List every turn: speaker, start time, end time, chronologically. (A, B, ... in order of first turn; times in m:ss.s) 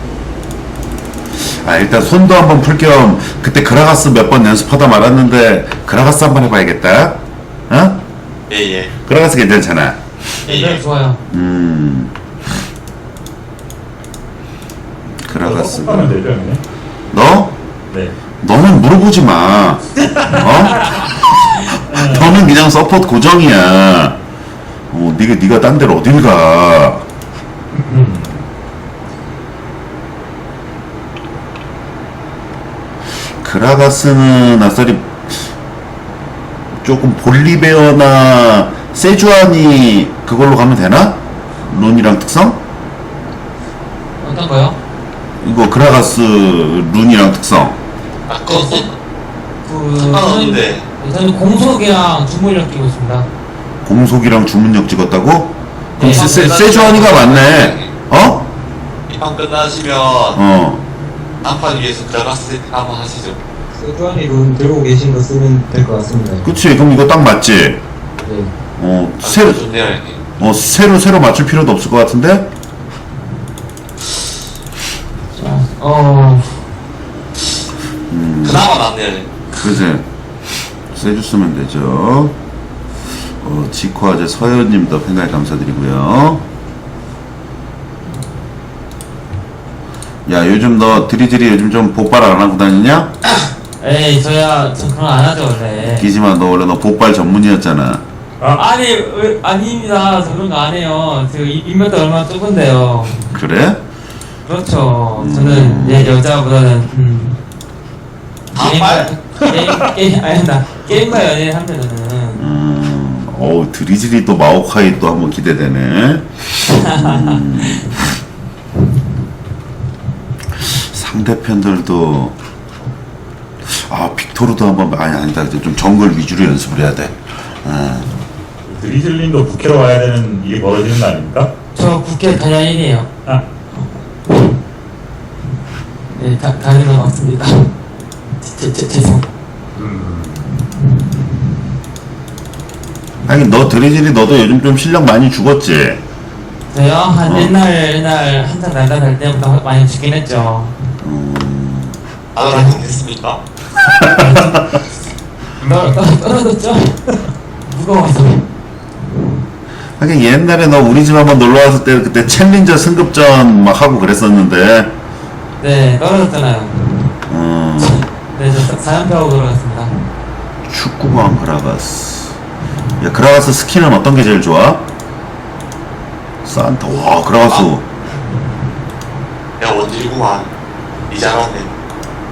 0:01.3-0:08.0 A
0:08.5-0:08.9 B
0:09.0-0:10.0 A
0:10.4-0:10.8 B
0:10.4-0:11.2 C
0:11.3-0:12.1 A
0:15.2-0:16.1 A
0:15.4-0:16.6 D
0:17.1-0:17.6 A
0:17.9-0:18.1 D
0:18.4-0:24.2 A
0:20.5-0:21.7 C
0:21.9-0:22.4 D
0:24.9-0:27.0 A
0:27.8-0:28.4 D
0:33.4-0:35.5 A
0:36.8-0:42.6 A
0:44.2-0:44.8 C
0:45.4-0:47.8 A
0:48.3-0:48.9 B
0:48.5-0:48.9 C
0:49.6-0:53.3 C
0:50.0-0:50.8 B
0:53.8-0:58.5 A
0:56.0-0:56.5 C
0:56.0-0:57.9 B
0:59.1-1:00.4 B
1:00.3-1:00.8 A
1:01.4-1:03.4 B
1:03.7-1:06.5 E
1:06.4-1:07.8 A
1:08.2-1:08.5 E
1:08.8-1:09.6 A
1:09.2-1:10.2 B
1:10.4-1:12.5 A
1:15.4-1:16.6 C
1:18.1-1:18.7 A
1:18.4-1:19.3 B
1:19.6-1:20.1 A
1:20.8-1:22.4 A
1:23.4-1:26.4 A
1:30.2-1:33.1 A
1:33.8-1:36.1 C
1:35.8-1:38.0 A
1:38.5-1:43.2 C
1:43.3-1:43.8 A
1:44.5-1:47.4 C
1:45.1-1:46.1 A
1:48.5-1:49.1 B
1:48.5-1:52.4 C
1:49.5-1:49.8 D
1:52.4-1:58.1 A
1:56.7-1:57.8 C
2:00.5-2:02.4 A
2:03.6-2:08.1 A
2:08.6-2:11.5 D
2:11.7-2:13.1 C
2:16.2-2:17.7 C
2:18.4-2:19.3 C
2:19.7-2:20.4 D
2:23.2-2:26.0 A
2:26.7-2:30.7 C
2:27.2-2:27.5 A
2:31.0-2:32.0 A
2:32.3-2:33.4 B
2:32.5-2:32.8 C
2:34.0-2:34.7 D
2:34.1-2:34.6 C
2:35.6-2:35.9 D
2:35.6-2:37.1 C
2:37.6-2:38.5 C
2:40.0-2:44.9 A
2:45.6-2:47.0 C
2:47.3-2:48.0 A
2:47.8-2:49.9 C
2:50.6-2:52.4 A
2:53.0-2:54.9 A
2:56.4-2:57.8 A
2:59.6-3:00.5 B
3:01.1-3:01.8 B